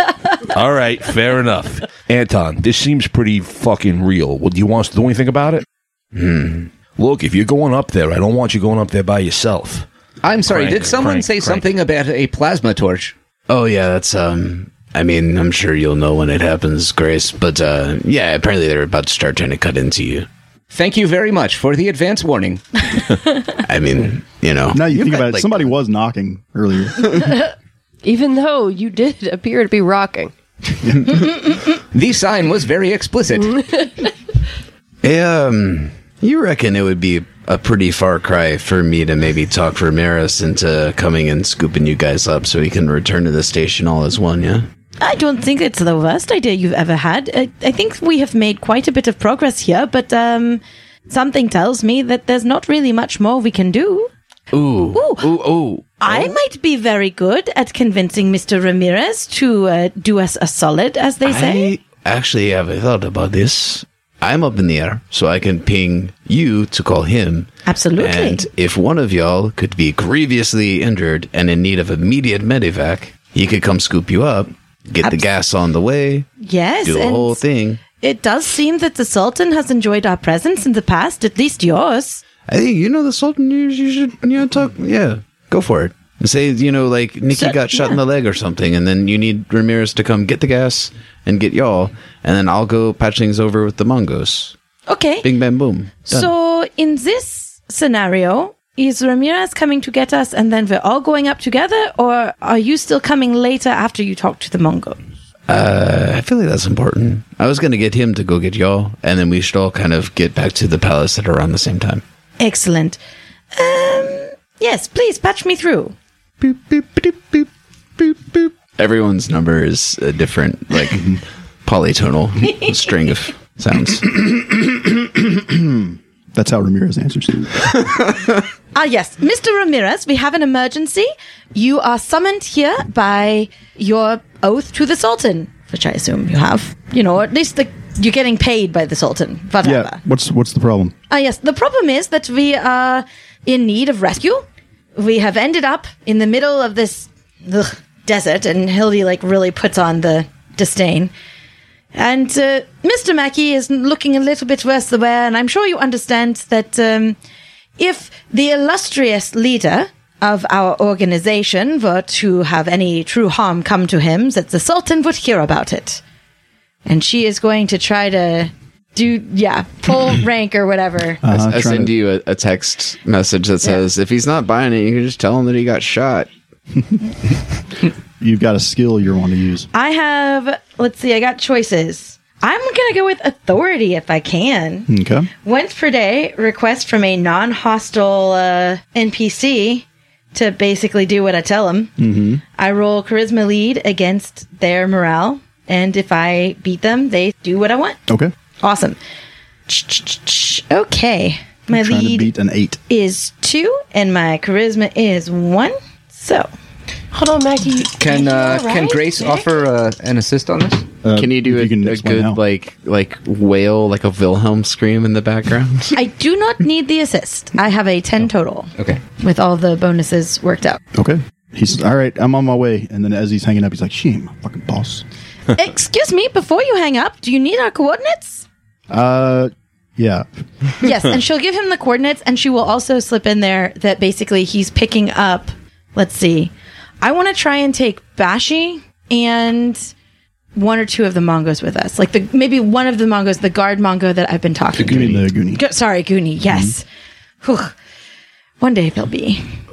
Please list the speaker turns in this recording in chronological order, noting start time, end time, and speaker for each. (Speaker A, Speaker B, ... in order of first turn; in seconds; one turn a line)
Speaker A: 0.5-5.6
Speaker B: 6.1-6.7
Speaker A: 7.0-9.9
Speaker C: 10.2-13.1
Speaker A: 10.4-11.7
Speaker B: 13.5-20.3
Speaker C: 20.7-22.8
Speaker B: 23.6-25.7
Speaker D: 24.7-27.4
Speaker E: 28.0-30.3
Speaker C: 31.9-33.6
Speaker B: 35.0-44.7
Speaker F: 45.0-54.1
Speaker B: 54.5-56.4
Speaker F: 54.9-55.3
Speaker F: 56.0-61.7
Speaker B: 61.2-76.3
Speaker F: 67.7-68.5
Speaker F: 76.4-77.4
Speaker B: 76.8-77.8
Speaker F: 78.0-82.2
Speaker B: 82.5-94.5
Speaker F: 87.3-88.0
Speaker F: 94.9-95.3
Speaker B: 95.2-96.3
Speaker F: 96.1-105.0
Speaker B: 105.5-112.0
Speaker F: 112.4-113.0
Speaker F: 113.5-115.9
Speaker B: 116.4-117.5
Speaker B: 118.0-124.2
Speaker D: 124.5-127.7
Speaker F: 128.7-140.0
Speaker D: 139.6-140.9
Speaker F: 141.1-144.4
Speaker F: 144.9-151.1
Speaker F: 151.9-157.2
Speaker F: 157.8-166.0
Speaker F: 166.9-171.2
Speaker D: 171.2-171.9
Speaker B: 171.3-176.3
Speaker D: 178.2-179.7
Speaker F: 179.7-184.9
Speaker D: 184.9-185.3
Speaker F: 185.4-191.9
Speaker D: 192.0-192.4
Speaker F: 192.6-198.0
Speaker D: 198.1-198.3
Speaker F: 198.6-199.0
Speaker F: 199.7-202.3
Speaker D: 201.7-202.8
Speaker F: 202.9-206.5
Speaker E: 207.1-209.3
Speaker C: 208.0-210.9
Speaker D: 211.0-212.4
Speaker B: 211.2-215.9
Speaker F: 215.9-220.8
Speaker D: 220.9-225.0
Speaker F: 225.5-228.4
Speaker D: 228.9-230.2
Speaker F: 230.8-239.9
Speaker F: 240.5-246.8
Speaker C: 244.8-245.1
Speaker D: 244.8-245.6
Speaker F: 247.4-247.7
Speaker F: 248.6-249.4